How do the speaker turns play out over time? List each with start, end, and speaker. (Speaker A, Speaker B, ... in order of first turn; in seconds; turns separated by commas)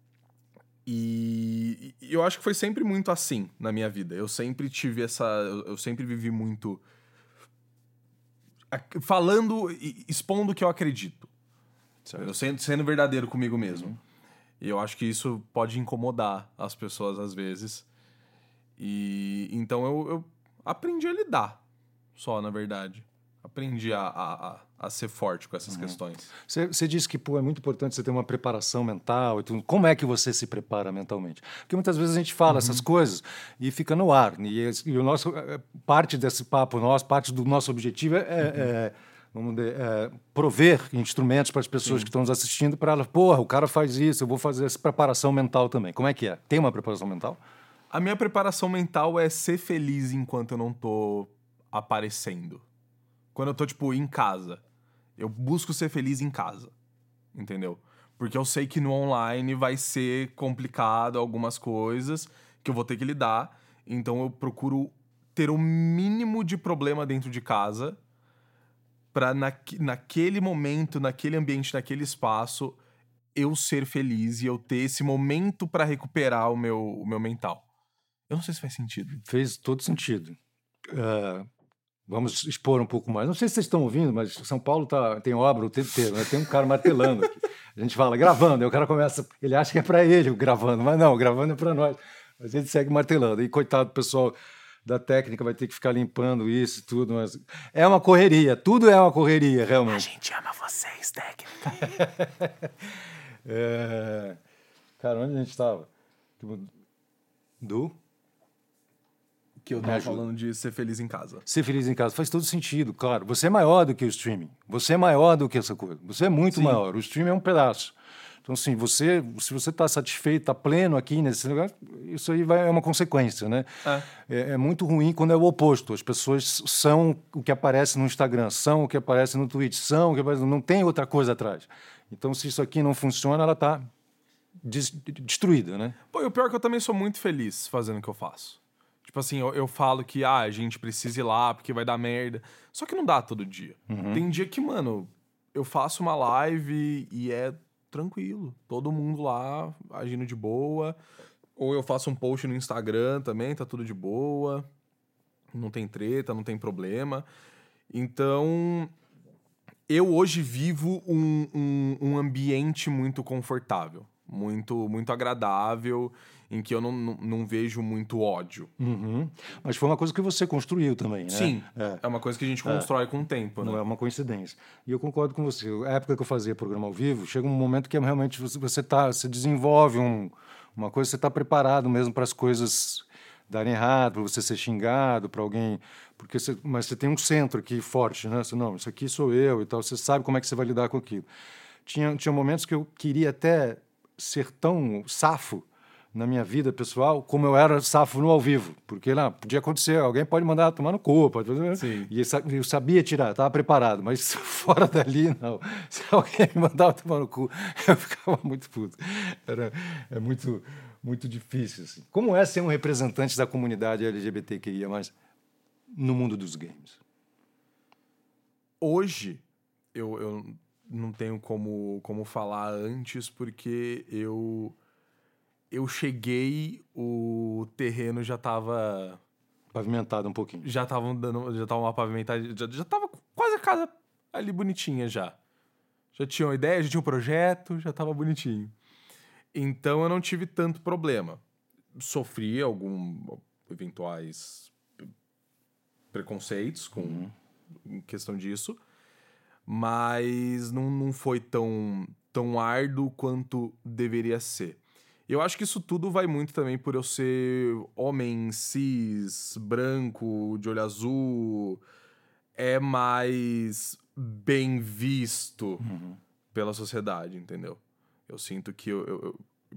Speaker A: 0.8-6.8, Speaker A: 8.7-11.3, Speaker A: 12.1-13.9, Speaker A: 14.6-17.9, Speaker A: 18.8-21.6, Speaker A: 22.1-26.3, Speaker B: 25.7-47.4, Speaker A: 32.5-32.8, Speaker A: 47.9-52.6, Speaker A: 53.3-54.6, Speaker A: 55.2-56.7, Speaker A: 57.3-68.0, Speaker A: 69.1-72.8, Speaker A: 73.3-77.6, Speaker A: 78.3-79.2, Speaker B: 79.2-80.4, Speaker B: 80.9-81.5, Speaker B: 82.1-100.1, Speaker A: 99.9-102.0, Speaker B: 101.7-104.4, Speaker B: 105.0-106.7, Speaker B: 107.6-107.9, Speaker A: 109.6-111.5, Speaker B: 109.8-110.2, Speaker B: 111.5-133.8, Speaker A: 116.5-116.8, Speaker B: 134.6-136.0, Speaker A: 136.1-151.0, Speaker B: 143.9-144.2, Speaker A: 151.6-154.7, Speaker A: 155.5-157.2, Speaker A: 157.9-158.9, Speaker A: 159.9-168.7, Speaker B: 168.8-172.0, Speaker A: 171.3-173.8, Speaker B: 173.6-191.2, Speaker B: 191.8-215.1, Speaker A: 201.7-202.1, Speaker B: 215.9-217.0, Speaker A: 218.8-219.4, Speaker A: 219.9-224.8, Speaker A: 225.7-229.2, Speaker B: 229.7-230.7, Speaker A: 230.6-235.3, Speaker A: 236.1-238.7, Speaker A: 239.5-241.4, Speaker A: 242.0-244.7, Speaker A: 246.1-247.3, Speaker B: 247.0-247.3, Speaker A: 247.8-248.8, Speaker A: 249.7-261.8, Speaker A: 262.6-265.9, Speaker B: 265.8-266.2, Speaker A: 266.5-269.4